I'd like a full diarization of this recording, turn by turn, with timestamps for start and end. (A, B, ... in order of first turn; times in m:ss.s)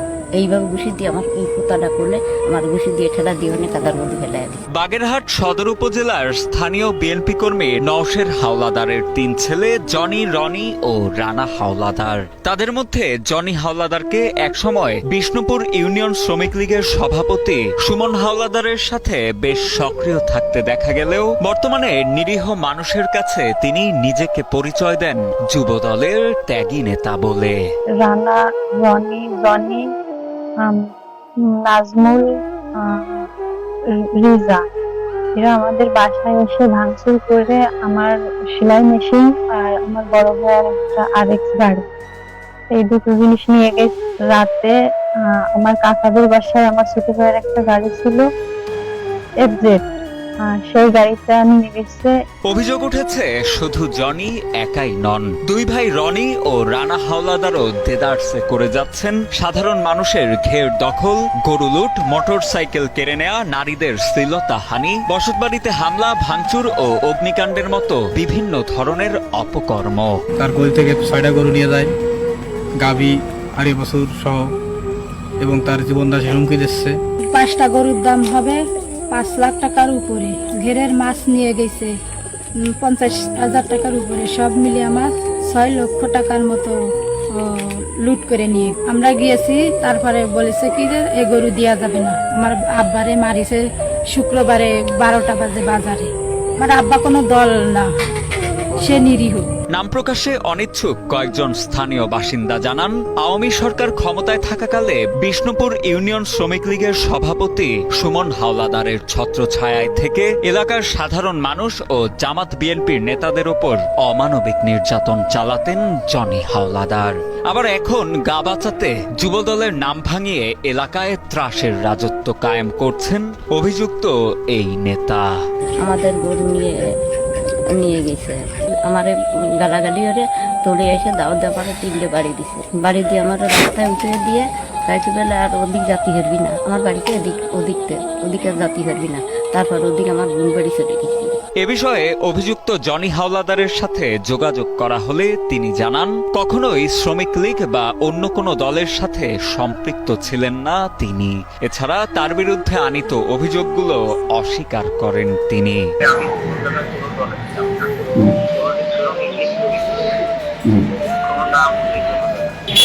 0:00.4-0:04.6 A
0:04.7-0:27.5 B
0:28.0-0:29.8 C
0:31.6-0:32.2 C
0:34.2-0:34.6 C
0:35.4-0:41.8 C
0:42.7-0:44.7 C
0:45.5-0:48.2 C
0:49.4-0:49.8 C
0:50.5-0:52.1 C
0:52.5-1:10.1 B
1:10.4-1:11.9 D
1:12.8-1:14.5 D
1:15.4-1:17.0 D
1:17.3-1:18.6 E
1:19.1-1:21.9 E
1:22.8-1:26.7 E
1:27.4-1:36.1 E
1:36.6-1:37.9 E
1:38.8-1:39.4 E
1:39.7-2:05.2 B
2:05.8-2:06.7 A
2:07.8-2:21.4 A
2:21.6-2:35.8 B